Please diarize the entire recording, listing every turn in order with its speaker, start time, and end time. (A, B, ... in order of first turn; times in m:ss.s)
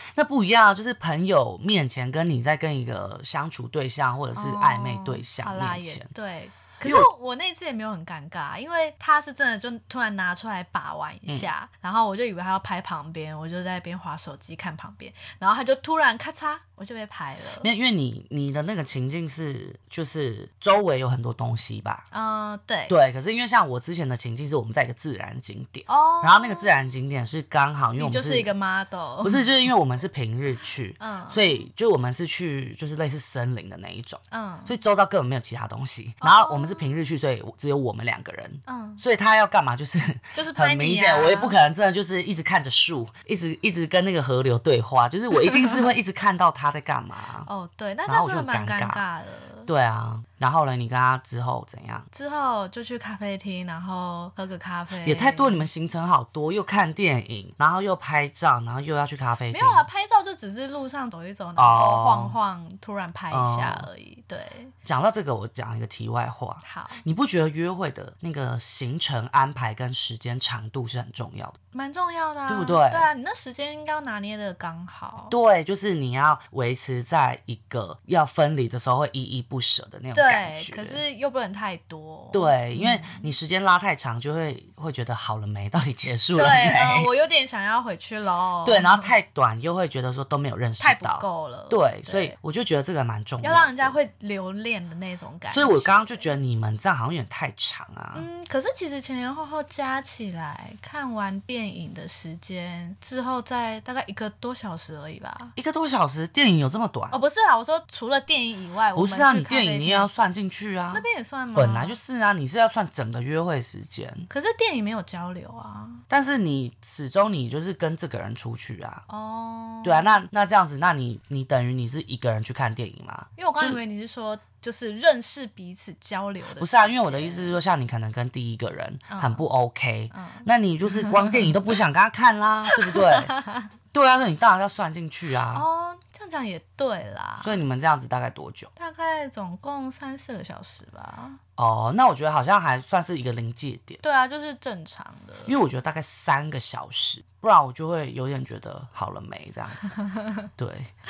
0:00.1-0:06.1 A
0:04.3-0:17.7 B
0:17.6-0:22.0 A
0:22.1-0:22.9 B
0:22.9-0:28.5 A
0:25.9-0:26.7 B
0:28.0-0:29.5 B
0:29.2-0:47.5 A
0:31.0-0:31.6 B
0:34.3-0:34.7 B
0:36.2-0:37.0 B
0:38.6-0:39.0 B
0:40.3-0:41.6 B
0:45.4-0:45.8 B
0:47.4-0:49.7 B
0:48.1-0:49.0 A
0:49.6-0:52.1 A
0:52.1-0:55.7 B
0:55.0-0:59.8 A
0:59.5-1:04.7 B
1:01.6-1:02.4 A
1:03.3-1:03.9 A
1:04.8-1:11.6 A
1:06.6-1:07.0 B
1:11.7-1:15.3 B
1:12.5-1:13.1 A
1:15.3-1:21.0 A
1:20.1-1:23.3 B
1:22.3-1:27.1 A
1:26.4-1:29.1 B
1:28.6-1:34.0 A
1:30.8-1:32.3 B
1:33.4-1:36.3 B
1:35.5-1:38.3 A
1:38.1-1:45.5 B
1:45.6-1:47.2 A
1:47.1-1:50.2 B
1:48.9-1:54.3 A
1:50.9-1:52.0 B
1:54.3-1:56.0 B
1:56.1-1:59.0 A
1:59.1-2:00.0 B
1:59.8-2:03.8 A
2:03.4-2:07.6 B
2:06.6-2:13.4 A
2:09.1-2:09.4 B
2:10.1-2:11.5 B
2:12.7-2:13.7 B
2:13.9-2:15.6 A
2:15.5-2:17.6 B
2:17.4-2:18.7 A
2:18.8-2:21.4 B
2:21.6-2:24.0 A
2:24.0-2:25.5 B
2:25.4-2:29.9 A
2:29.9-2:30.5 B
2:30.6-2:30.9 A